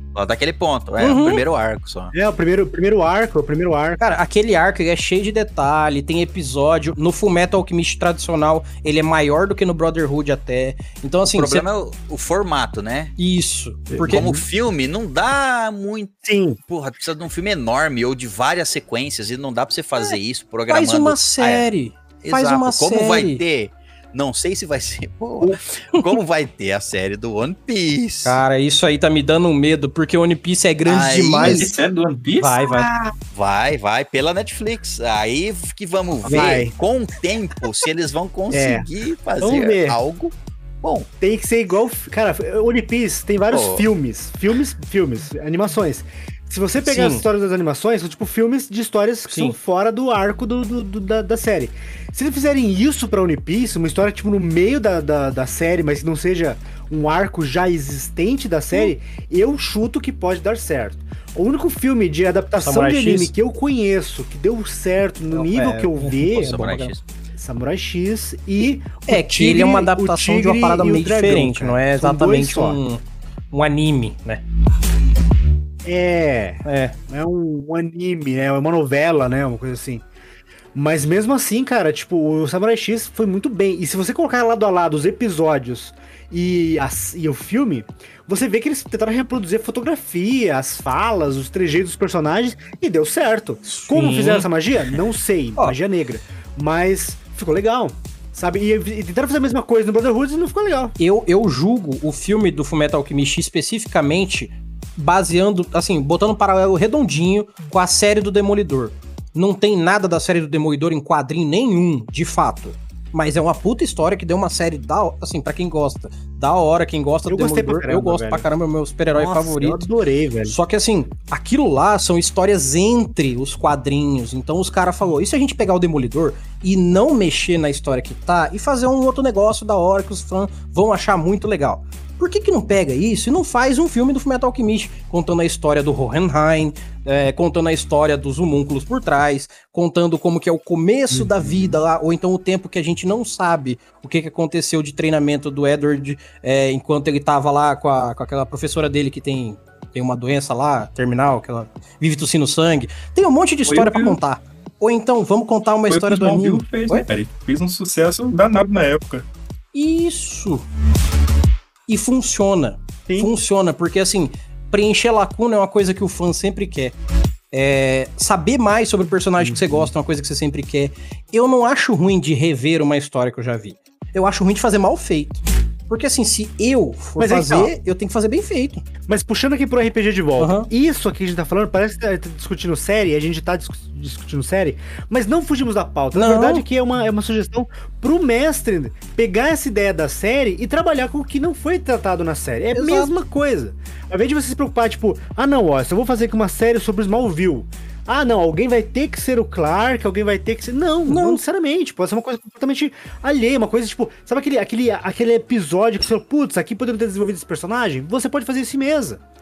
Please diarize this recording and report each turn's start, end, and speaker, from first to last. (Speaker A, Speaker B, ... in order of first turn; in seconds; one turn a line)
Speaker A: 0.1-2.1
Speaker B: 1.0-1.4
Speaker C: 2.1-4.0
Speaker B: 4.0-11.6
Speaker A: 11.3-13.1
Speaker B: 13.2-14.2
Speaker C: 13.9-14.4
Speaker A: 14.1-21.6
Speaker C: 16.2-16.6
Speaker B: 20.7-23.4
Speaker A: 22.2-28.4
Speaker B: 28.2-31.7
Speaker A: 30.8-31.7
Speaker D: 31.4-32.8
Speaker B: 32.4-32.9
Speaker A: 33.3-41.1
Speaker C: 36.2-36.7
Speaker C: 38.5-38.9
Speaker C: 39.4-40.0
Speaker C: 41.2-72.8
Speaker A: 43.5-43.8
Speaker B: 46.8-47.2
Speaker B: 49.3-49.5
Speaker B: 62.6-63.3
Speaker B: 65.3-66.7
Speaker A: 66.2-67.0
Speaker B: 69.1-73.0
Speaker B: 73.5-74.4
Speaker C: 75.8-80.0
Speaker B: 76.6-76.9
Speaker C: 80.7-101.0
Speaker B: 93.7-94.5
Speaker B: 101.0-119.9
Speaker C: 117.3-118.5
Speaker C: 119.1-120.6
Speaker B: 120.5-157.1
Speaker C: 141.1-141.8
Speaker D: 153.7-154.2
Speaker D: 155.9-159.2
Speaker B: 159.7-160.6
Speaker B: 161.9-166.9
Speaker B: 167.5-178.8
Speaker C: 169.4-169.9
Speaker C: 177.2-177.7
Speaker C: 179.1-209.2
Speaker B: 180.4-180.7
Speaker B: 186.1-186.6
Speaker B: 192.7-193.1
Speaker B: 201.1-201.4